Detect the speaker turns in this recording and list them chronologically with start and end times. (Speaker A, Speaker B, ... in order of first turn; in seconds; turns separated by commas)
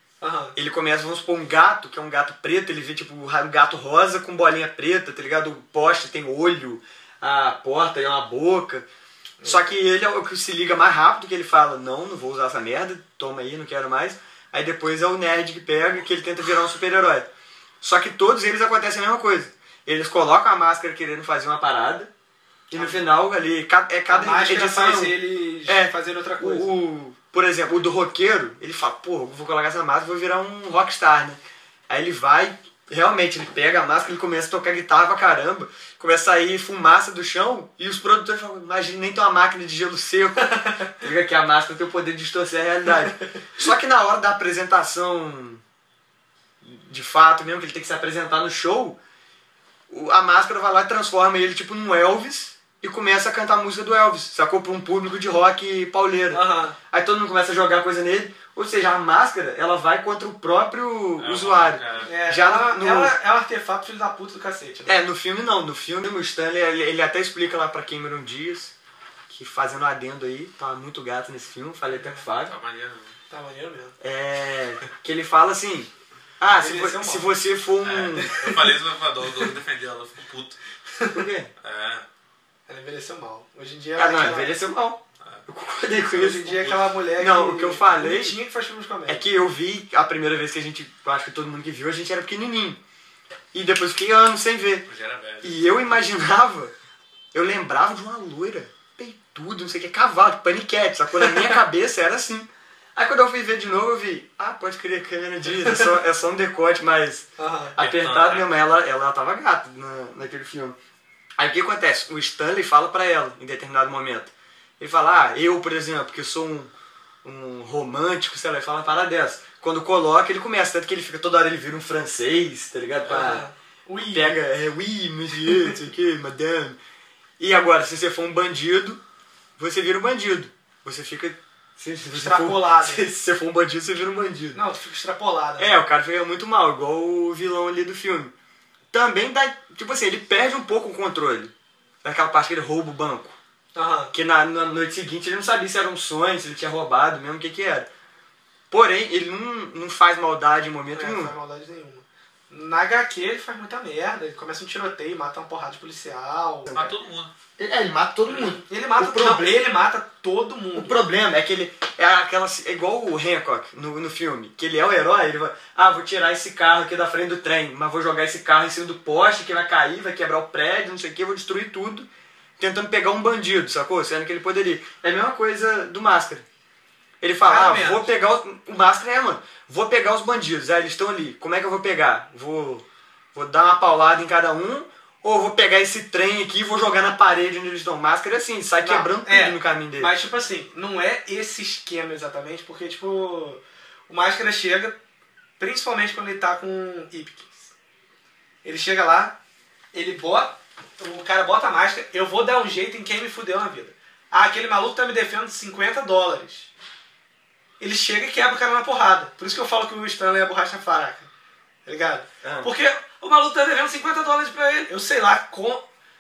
Speaker A: 0.2-0.6, Speaker B: 0.6-8.9, Speaker A: 9.4-9.7, Speaker B: 9.4-17.3, Speaker B: 17.8-22.1, Speaker B: 22.7-45.6, Speaker A: 22.7-23.0, Speaker A: 24.1-26.7, Speaker A: 40.4-40.9, Speaker B: 46.6-49.0, Speaker B: 49.9-63.1, Speaker A: 56.3-56.8, Speaker C: 61.2-62.1, Speaker A: 62.0-65.0, Speaker B: 64.9-68.7, Speaker B: 69.3-72.5, Speaker A: 72.0-72.2, Speaker C: 72.4-73.1, Speaker A: 73.3-74.0, Speaker B: 74.0-78.3, Speaker A: 76.5-77.3, Speaker C: 77.8-80.6, Speaker A: 78.2-78.7, Speaker A: 81.0-81.2, Speaker B: 81.1-81.5, Speaker C: 81.6-82.0, Speaker A: 82.7-84.5, Speaker B: 84.0-86.6, Speaker C: 86.1-86.9, Speaker A: 86.2-89.2, Speaker B: 87.2-88.4, Speaker B: 89.1-92.8, Speaker B: 93.5-94.9, Speaker C: 94.9-95.7, Speaker B: 95.4-96.7, Speaker B: 97.3-110.8, Speaker A: 107.4-107.7, Speaker C: 107.8-108.5, Speaker B: 111.4-116.7, Speaker B: 117.2-123.5, Speaker A: 123.0-124.4, Speaker B: 124.1-126.8, Speaker B: 127.4-129.0, Speaker B: 129.6-134.6, Speaker A: 132.1-133.1, Speaker A: 134.5-135.8, Speaker B: 135.6-138.3, Speaker B: 138.9-141.5, Speaker B: 142.0-143.4, Speaker A: 143.8-144.1, Speaker B: 144.1-147.9, Speaker B: 148.7-151.3, Speaker A: 150.9-156.7, Speaker B: 156.7-156.9, Speaker C: 156.7-157.3, Speaker B: 157.6-159.6, Speaker A: 158.3-161.0, Speaker B: 160.7-172.1, Speaker B: 172.6-176.4, Speaker B: 177.2-190.1, Speaker A: 177.4-178.1, Speaker A: 188.8-194.9, Speaker A: 195.6-197.7, Speaker A: 198.6-199.4, Speaker A: 199.9-206.7, Speaker A: 207.8-211.3, Speaker A: 211.9-215.8, Speaker B: 212.4-212.7